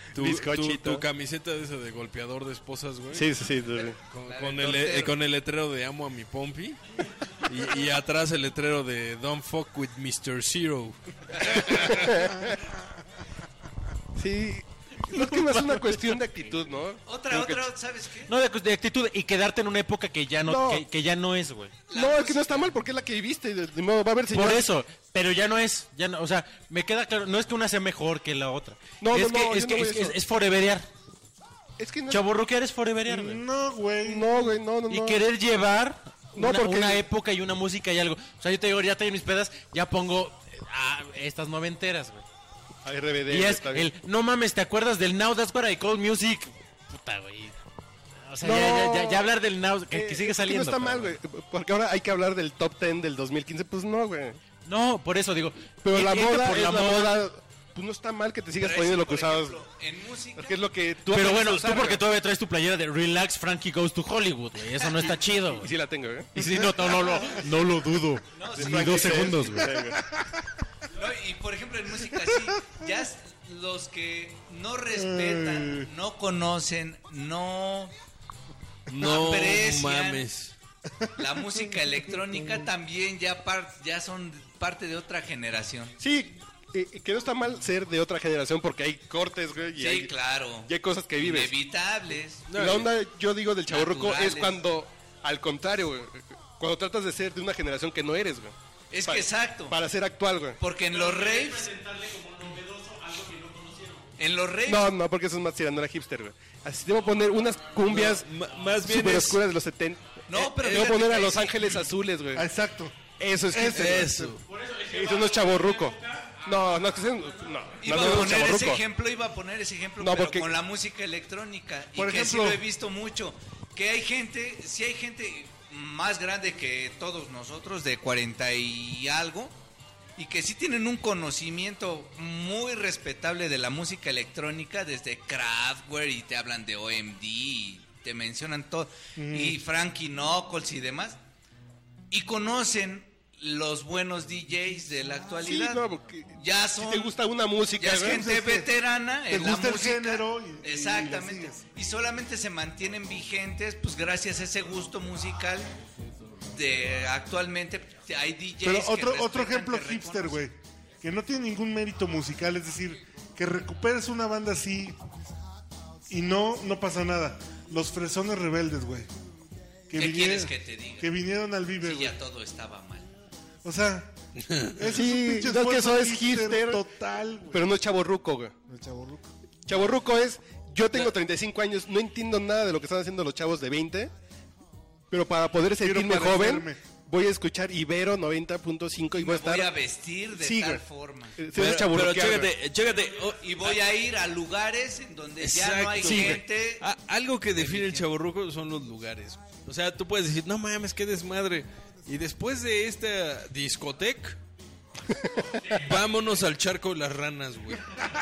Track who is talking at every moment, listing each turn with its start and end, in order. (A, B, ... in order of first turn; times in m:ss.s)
0:00.1-0:01.0 A
0:00.1-0:03.3 B
0:03.1-0:04.0 A
0:04.1-0:06.8 B
0:04.2-0:05.1 C
0:07.4-0:11.9 B
0:11.4-0:11.7 C
0:11.7-0:12.6 A
0:14.1-0:17.6 A
0:15.1-0:16.2 D
0:17.1-0:18.3 C
0:18.3-0:21.7 D
0:20.4-0:20.8 A
0:21.9-0:22.7 C
0:21.9-0:24.7 A
0:24.3-0:30.9 D
0:29.0-0:30.2 A
0:31.8-0:32.2 A
0:32.1-0:33.4 D
0:33.1-0:34.5 E
0:34.0-0:35.2 A
0:34.9-0:42.2 D
0:36.3-0:37.0 A
0:42.8-0:43.9 A
0:43.3-0:47.6 D
0:48.2-0:51.2 D
0:48.4-0:49.3 A
0:49.9-0:54.4 A
0:54.6-0:57.2 D
0:55.8-0:59.6 A
0:58.6-1:00.6 C
1:00.4-1:02.0 A
1:01.1-1:05.7 D
1:05.4-1:07.0 A
1:06.3-1:09.8 D
1:06.7-1:07.4 E
1:08.3-1:09.4 C
1:08.5-1:10.0 A
1:09.8-1:10.4 E
1:10.9-1:17.9 C
1:14.9-1:15.9 E
1:18.9-1:20.5 B
1:19.0-1:20.2 C
1:21.2-1:26.0 C
1:26.0-1:30.1 A
1:29.8-1:32.4 C
1:30.6-1:31.5 A
1:32.5-1:32.9 B
1:32.5-1:40.6 A
1:33.7-1:34.6 C
1:38.9-1:39.8 C
1:40.6-1:41.7 C
1:40.9-1:44.1 D
1:44.2-1:44.9 C
1:44.6-1:48.3 A
1:47.4-1:47.8 D
1:47.8-1:49.4 B
1:48.8-1:52.5 A
1:50.3-1:51.9 C
1:50.6-1:50.9 B
1:52.3-1:53.0 E
1:53.2-1:54.1 A
1:53.5-1:54.4 E
1:53.7-1:54.4 B
1:54.4-1:57.8 D
1:54.9-1:58.8 A
1:57.8-2:09.5 C
2:00.0-2:00.5 A
2:02.0-2:02.6 E
2:10.2-2:21.2 C
2:19.2-2:19.6 E
2:22.1-2:25.8 C
2:25.4-2:28.2 A
2:26.4-2:27.1 C
2:27.8-2:35.7 C
2:28.0-2:28.7 E
2:29.3-2:31.6 E
2:36.5-2:40.4 C
2:38.6-2:45.0 E
2:46.1-2:49.1 E
2:49.9-2:52.1 E
2:49.9-2:51.1 C
2:51.8-2:53.1 C
2:53.6-2:54.1 E
2:54.4-2:54.8 B
2:54.8-2:57.6 E
2:54.8-2:56.8 A
2:57.5-2:58.5 A
2:58.7-2:59.3 E
2:59.6-3:04.1 A
3:05.1-3:09.7 A
3:05.8-3:06.8 E
3:09.2-3:11.4 C
3:10.3-3:10.8 A
3:11.4-3:12.5 A
3:11.5-3:13.7 B
3:13.4-3:16.8 C
3:15.4-3:24.4 B
3:17.6-3:18.0 C
3:25.1-3:25.6 A
3:25.7-3:28.0 B